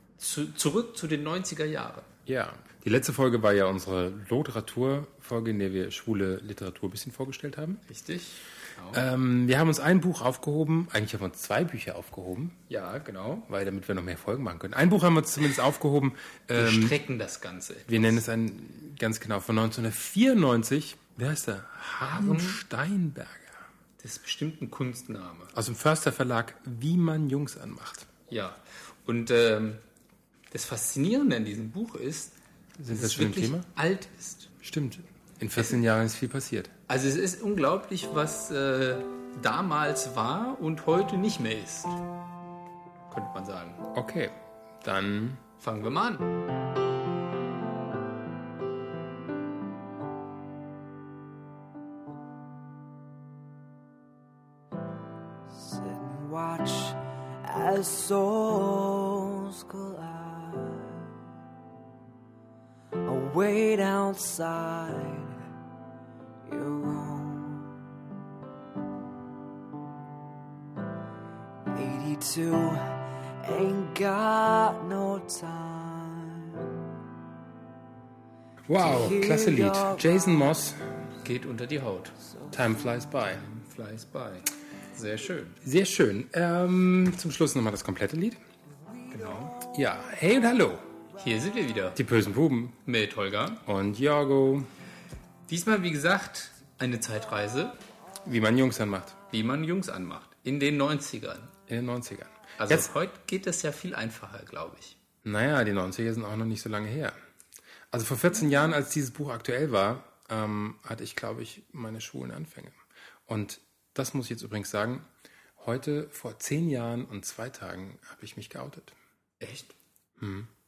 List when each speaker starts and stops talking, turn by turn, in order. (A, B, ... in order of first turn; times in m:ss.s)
0:00.2-0:02.1 A
0:02.3-0:07.8 B
0:07.9-0:09.0 A
0:08.9-0:12.6 B
0:12.7-0:13.5 A
0:13.5-0:17.0 B
0:16.6-0:18.2 A
0:17.9-0:23.6 B
0:22.1-0:22.6 A
0:24.0-0:25.5 A
0:25.5-0:28.1 B
0:28.3-0:29.8 A
0:30.5-0:34.5 A
0:32.8-0:33.7 B
0:34.6-0:36.7 B
0:36.9-0:42.0 A
0:43.1-0:43.8 A
0:43.9-0:45.4 B
0:45.6-0:46.3 A
0:55.5-1:01.1 C
1:03.0-1:05.4 C
1:06.5-1:07.8 C
1:11.7-1:16.8 C
1:18.7-1:20.8 B
1:18.8-1:20.4 C
1:21.2-1:22.2 A
1:22.5-1:23.4 B
1:23.2-1:25.6 A
1:25.6-1:28.4 B
1:29.1-1:29.6 A
1:29.6-1:30.8 B
1:31.2-1:32.0 A
1:32.0-1:32.8 B
1:32.8-1:33.6 A
1:33.7-1:34.7 B
1:35.5-1:37.8 A
1:38.2-1:39.2 B
1:39.3-1:41.5 A
1:41.7-1:42.9 B
1:42.6-1:45.0 A
1:45.2-1:47.2 B
1:47.9-1:55.1 B
1:55.6-1:59.0 B
1:59.4-1:59.8 A
2:00.2-2:00.5 B